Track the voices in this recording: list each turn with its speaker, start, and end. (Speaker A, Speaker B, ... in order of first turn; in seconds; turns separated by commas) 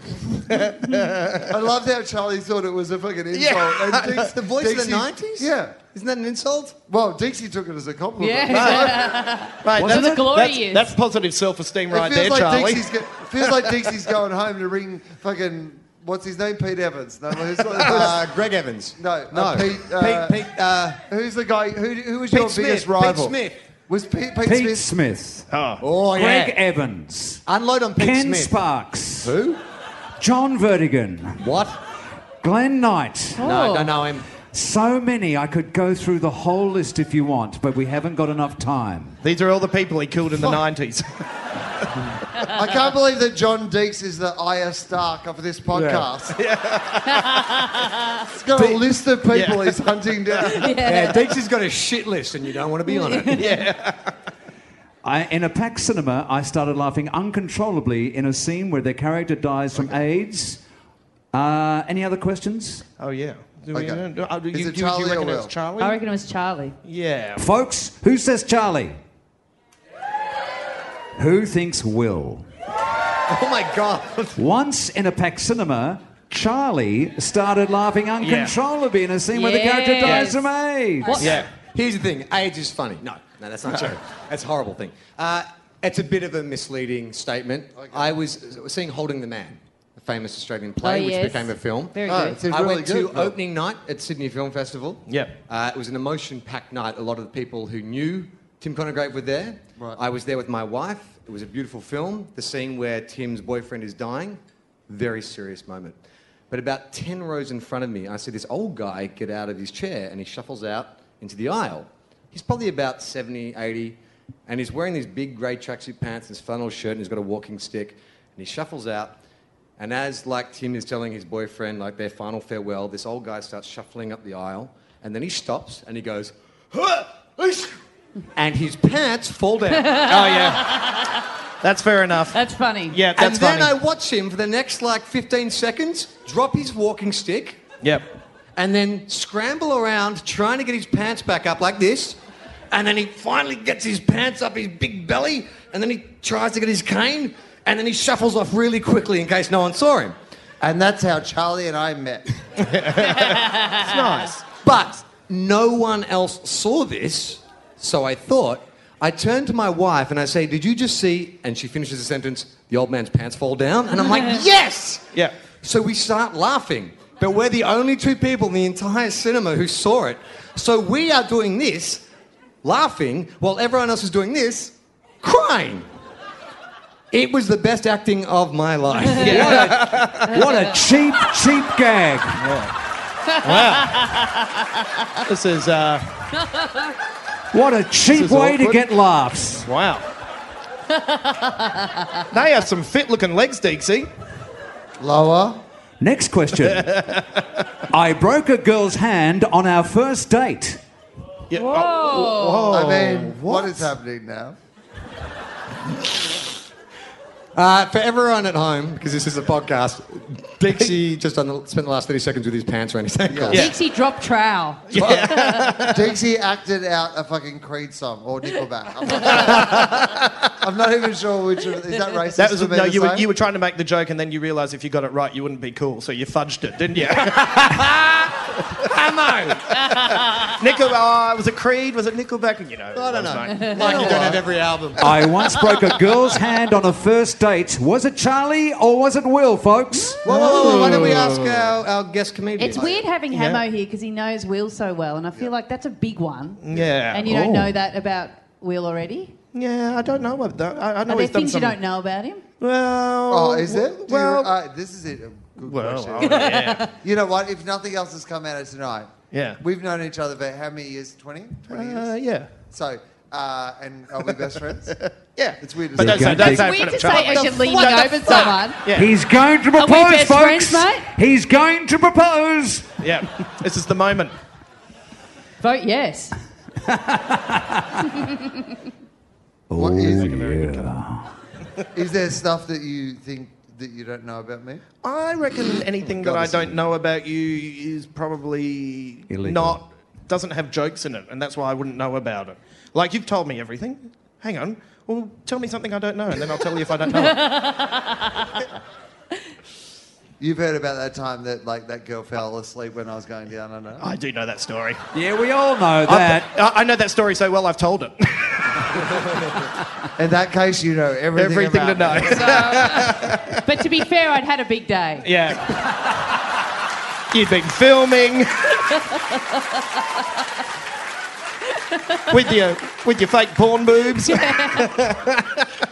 Speaker A: 0.5-1.6, Speaker B: 1.5-5.8, Speaker C: 3.3-6.8, Speaker B: 6.9-9.2, Speaker D: 8.2-10.9, Speaker A: 8.5-13.9, Speaker E: 9.8-10.3, Speaker B: 11.9-18.3, Speaker C: 17.8-21.0, Speaker B: 19.0-20.5, Speaker B: 21.1-23.4, Speaker C: 22.3-23.6, Speaker B: 23.9-24.9, Speaker E: 24.4-25.5, Speaker A: 25.5-25.8, Speaker C: 25.8-26.6, Speaker E: 26.1-27.4, Speaker C: 27.5-28.6, Speaker E: 28.0-29.3, Speaker C: 29.2-29.6, Speaker E: 30.2-31.4, Speaker C: 31.4-31.8, Speaker E: 32.4-33.4, Speaker D: 33.4-34.0, Speaker C: 33.4-34.3, Speaker E: 34.5-39.2, Speaker A: 39.2-41.1, Speaker B: 42.5-46.4, Speaker C: 45.7-46.1, Speaker A: 46.3-47.7, Speaker B: 48.3-50.7, Speaker A: 48.6-49.8, Speaker D: 50.5-51.4, Speaker C: 50.8-53.5, Speaker D: 52.9-53.6, Speaker A: 53.3-54.1, Speaker E: 55.0-60.6, Speaker E: 61.3-62.9, Speaker A: 63.0-66.0, Speaker B: 63.7-65.5, Speaker D: 65.8-66.8, Speaker A: 66.8-67.4, Speaker E: 67.4-69.0, Speaker E: 71.2-72.5, Speaker C: 73.3-74.4, Speaker E: 74.4-81.2, Speaker A: 78.2-78.5, Speaker D: 79.3-80.5, Speaker D: 81.0-81.4, Speaker A: 81.1-81.5, Speaker C: 81.2-106.0, Speaker B: 87.8-88.1, Speaker D: 90.8-92.4, Speaker B: 92.1-93.4, Speaker A: 95.1-95.3, Speaker C: 106.5-119.2, Speaker C: 119.8-127.8, Speaker C: 128.3-130.2, Speaker D: 129.7-131.1, Speaker A: 130.0-130.8, Speaker A: 131.6-133.8, Speaker D: 132.3-133.0, Speaker C: 133.1-137.6, Speaker A: 137.8-138.1, Speaker C: 138.6-142.2, Speaker C: 142.7-150.2, Speaker B: 150.6-152.3, Speaker A: 152.6-154.4, Speaker D: 153.6-154.2, Speaker C: 154.6-172.0, Speaker C: 172.6-175.9, Speaker C: 177.1-180.0, Speaker A: 179.2-180.1, Speaker E: 179.2-182.5, Speaker A: 182.4-182.7, Speaker D: 183.3-184.0, Speaker A: 183.4-184.1, Speaker A: 185.3-186.1, Speaker D: 186.4-186.9, Speaker E: 187.5-189.7, Speaker A: 188.1-188.8, Speaker A: 189.7-190.1, Speaker D: 190.9-192.1, Speaker A: 192.3-194.1, Speaker B: 195.0-195.6, Speaker E: 196.0-197.1, Speaker A: 196.6-197.4, Speaker E: 197.9-200.8, Speaker A: 201.5-203.9, Speaker D: 201.5-202.8, Speaker B: 202.7-204.6, Speaker C: 207.6-213.7, Speaker B: 213.3-213.7, Speaker A: 213.5-213.8, Speaker D: 213.5-215.7, Speaker A: 214.9-216.0, Speaker B: 215.0-215.3, Speaker B: 215.8-219.9, Speaker A: 219.3-219.9, Speaker B: 220.6-223.3, Speaker A: 222.4-227.9, Speaker C: 227.2-227.9, Speaker C: 228.8-229.6, Speaker D: 229.9-230.5, Speaker A: 230.1-234.3, Speaker C: 232.9-235.2, Speaker D: 233.5-234.4, Speaker E: 235.0-241.2, Speaker D: 240.0-240.7, Speaker C: 240.2-243.0, Speaker A: 240.3-241.7, Speaker D: 242.6-249.4, Speaker A: 243.3-243.6, Speaker A: 246.6-247.3, Speaker E: 247.2-247.8, Speaker A: 249.5-251.8, Speaker D: 251.1-252.4, Speaker A: 252.6-254.5, Speaker B: 253.3-262.1, Speaker A: 255.6-256.8, Speaker D: 256.2-256.9, Speaker A: 259.3-259.6, Speaker A: 261.7-262.5, Speaker B: 262.7-265.0, Speaker A: 264.9-269.1, Speaker B: 265.6-267.5, Speaker E: 266.0-266.9, Speaker D: 266.5-268.8, Speaker E: 268.9-272.9, Speaker D: 269.8-271.1, Speaker A: 273.0-274.3, Speaker D: 275.6-276.4, Speaker E: 276.9-278.1, Speaker D: 278.1-278.6, Speaker E: 279.7-281.3, Speaker B: 279.8-280.6, Speaker A: 280.2-280.8, Speaker B: 281.9-284.8, Speaker A: 285.0-297.4, Speaker C: 286.2-286.6, Speaker E: 289.3-289.8, Speaker D: 297.1-298.6, Speaker B: 300.4-304.1, Speaker A: 304.0-305.0, Speaker E: 305.1-306.5, Speaker A: 306.1-309.4, Speaker B: 310.2-312.8, Speaker A: 311.4-313.7, Speaker D: 312.3-315.3, Speaker A: 315.2-315.9, Speaker A: 317.3-318.6, Speaker D: 321.9-322.2, Speaker A: 322.3-325.6, Speaker D: 324.2-324.9